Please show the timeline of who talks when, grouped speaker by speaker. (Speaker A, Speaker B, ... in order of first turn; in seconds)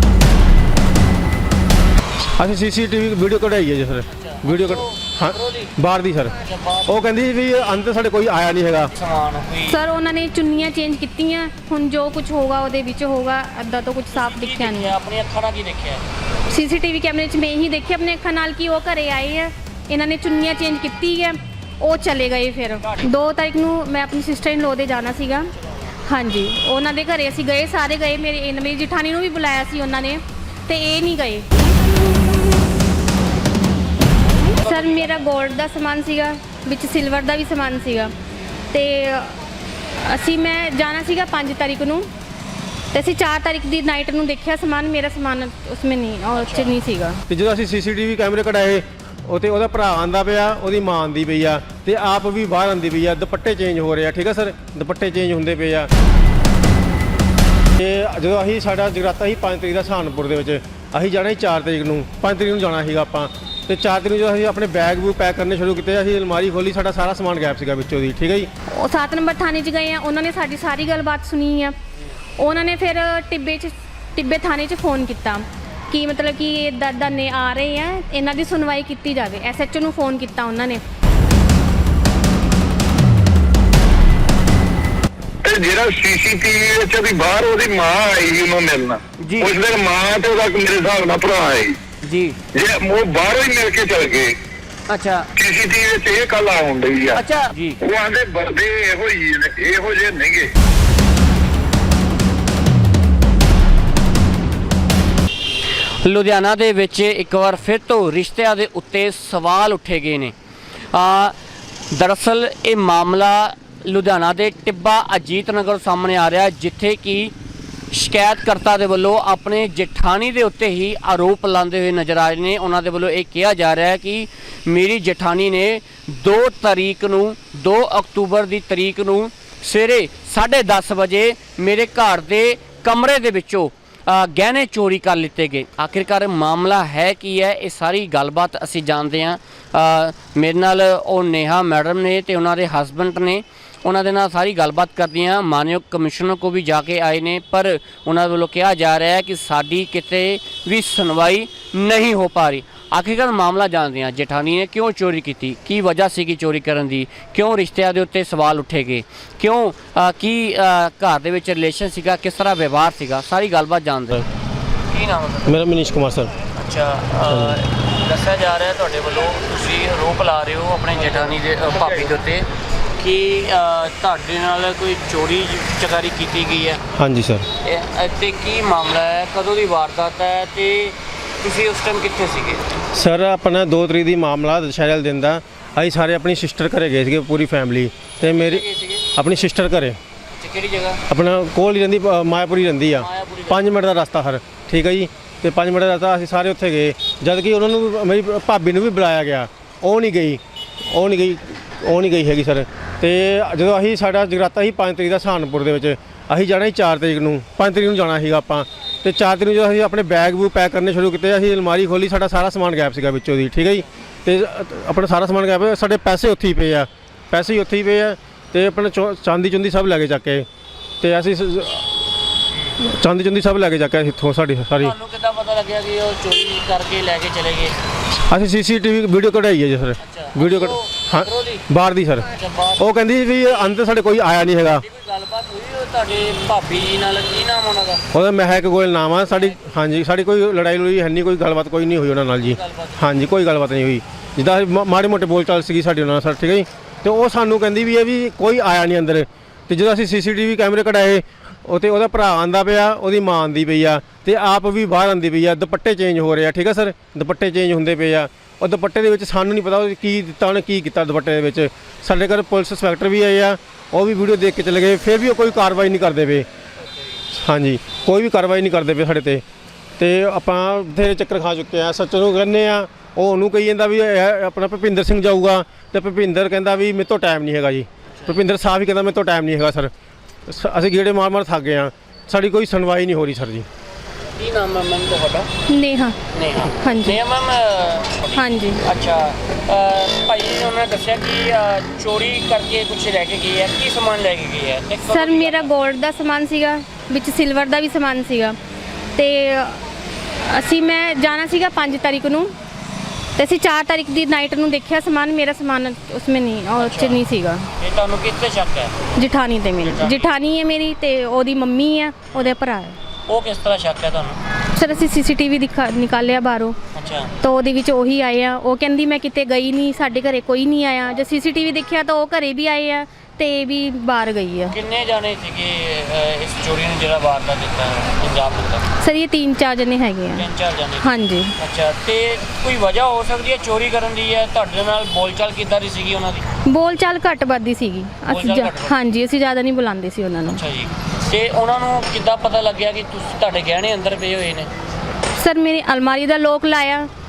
Speaker A: 2.4-8.9, 47.3-55.9, 57.8-68.5, 165.4-166.3, 167.3-167.6, 177.0-177.5, 182.9-188.7, 189.2-190.0, 191.1-220.5, 221.0-222.1, 222.8-224.9, 228.3-234.8, 238.1-266.5, 267.3-269.4, 270.0-279.9, 280.5-283.7
Speaker B: 4.1-5.7, 6.4-7.0, 8.9-9.8, 14.1-16.0, 22.8-23.3, 25.5-25.9, 34.4-35.3, 46.4-46.8, 89.2-89.5, 92.0-92.4, 94.9-95.3, 97.2-97.8, 106.0-110.3, 110.9-111.3, 111.9-117.3, 117.9-164.2, 164.9-165.6, 166.6-172.5, 173.0-176.8, 177.6-182.7, 188.2-189.1, 190.4-191.0, 192.9-193.7, 224.8-227.8, 230.0-231.7, 232.3-232.9, 234.8-238.0, 239.3-239.6, 242.4-243.1, 278.1-278.4, 284.4-285.5, 286.3-295.7, 306.8-307.2, 307.8-309.0, 309.8-310.4, 313.3-315.0, 316.9-317.3, 324.7-328.9, 330.4-331.1, 331.6-336.4, 338.3-338.9, 340.5-344.7
Speaker C: 9.7-14.9, 16.5-25.5, 26.1-31.5, 34.6-38.1, 38.7-39.4, 40.0-42.1, 42.9-47.2, 68.8-71.7, 72.4-80.8, 285.7-286.2, 286.8-287.2, 288.4-288.8, 295.1-298.6, 299.1-299.8, 300.4-302.5, 303.4-307.7, 309.2-313.0, 314.8-316.8, 317.4-324.8, 329.0-330.4, 331.0-331.5, 336.7-340.6, 345.4-347.1
Speaker D: 85.4-91.8, 92.5-94.3, 95.4-97.2, 97.8-100.5